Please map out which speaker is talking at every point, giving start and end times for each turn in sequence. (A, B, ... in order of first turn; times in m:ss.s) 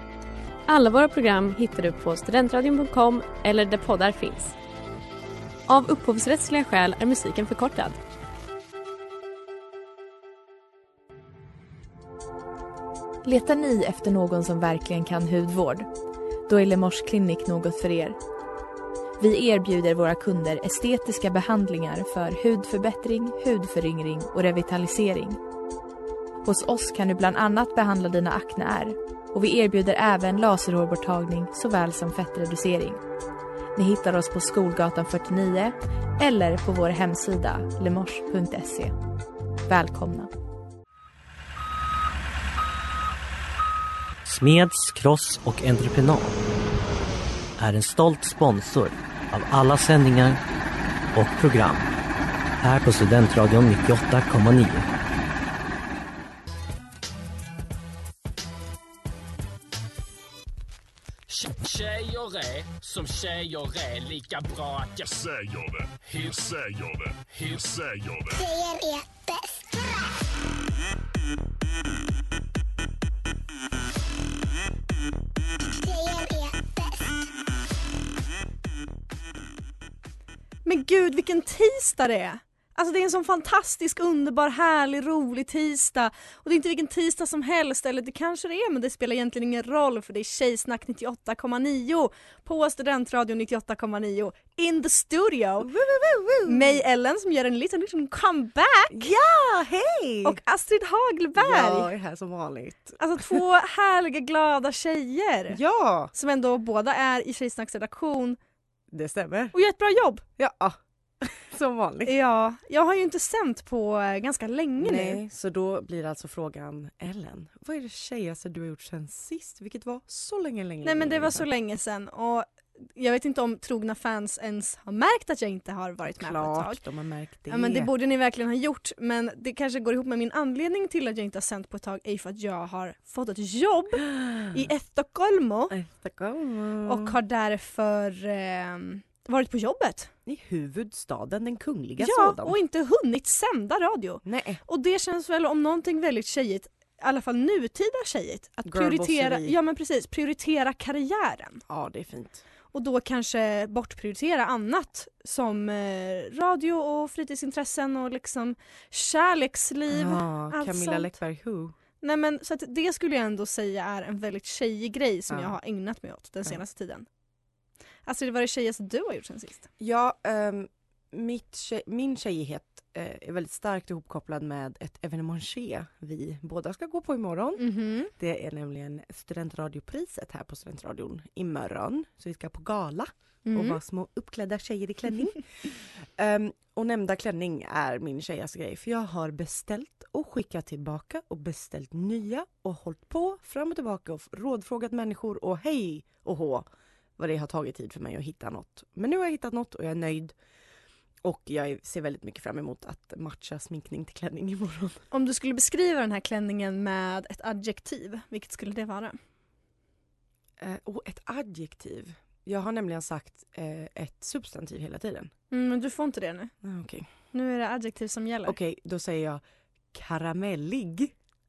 0:00.7-0:04.6 A
0:05.7-0:08.0 A
0:13.2-0:15.9 B
0:16.5-0:18.2 B
0:19.2-0:25.4 B
0:26.4-0:33.0 B
0:33.8-0:39.0 B
0:39.7-0:40.3 B
0:44.2-0:46.4 C
0:47.6-0:50.4 C
0:51.1-0:51.9 C
0:52.6-0:54.9 C
1:01.3-1:05.1 D
1:05.1-1:08.4 E
1:06.1-1:06.4 D
1:07.3-1:07.6 D
1:08.4-1:09.7 F
1:15.7-1:17.1 F
1:20.6-1:35.7 G
1:35.6-1:36.8 H
1:36.4-1:39.2 G
1:38.9-1:40.4 H
1:40.2-1:41.9 G
1:41.4-1:43.4 H
1:43.0-1:45.6 G
1:45.5-1:46.1 H
1:46.1-1:48.4 G
1:48.9-1:49.5 H
1:49.5-1:50.2 G
1:50.4-1:52.1 H
1:52.0-1:55.2 G
1:54.8-2:01.5 H
2:00.8-2:06.8 G
2:06.0-2:07.9 H
2:07.5-2:15.8 G
2:14.1-2:14.5 H
2:15.7-2:17.2 H
2:16.8-2:20.1 G
2:20.3-2:22.6 H
2:22.0-2:31.6 G
2:24.2-2:24.6 H
2:28.6-2:29.6 H
2:31.7-2:32.4 H
2:32.7-2:41.1 G
2:39.9-2:41.8 H
2:42.0-2:47.1 G
2:45.3-2:45.6 H
2:48.1-2:49.7 G
2:49.8-3:20.4 H
2:57.6-2:58.1 G
3:03.5-3:03.8 G
3:21.2-3:25.0 H
3:25.1-3:29.2 G
3:30.6-3:35.3 H
3:35.5-3:36.5 G
3:36.6-3:37.1 H
3:37.3-3:38.6 G
3:38.4-3:41.1 H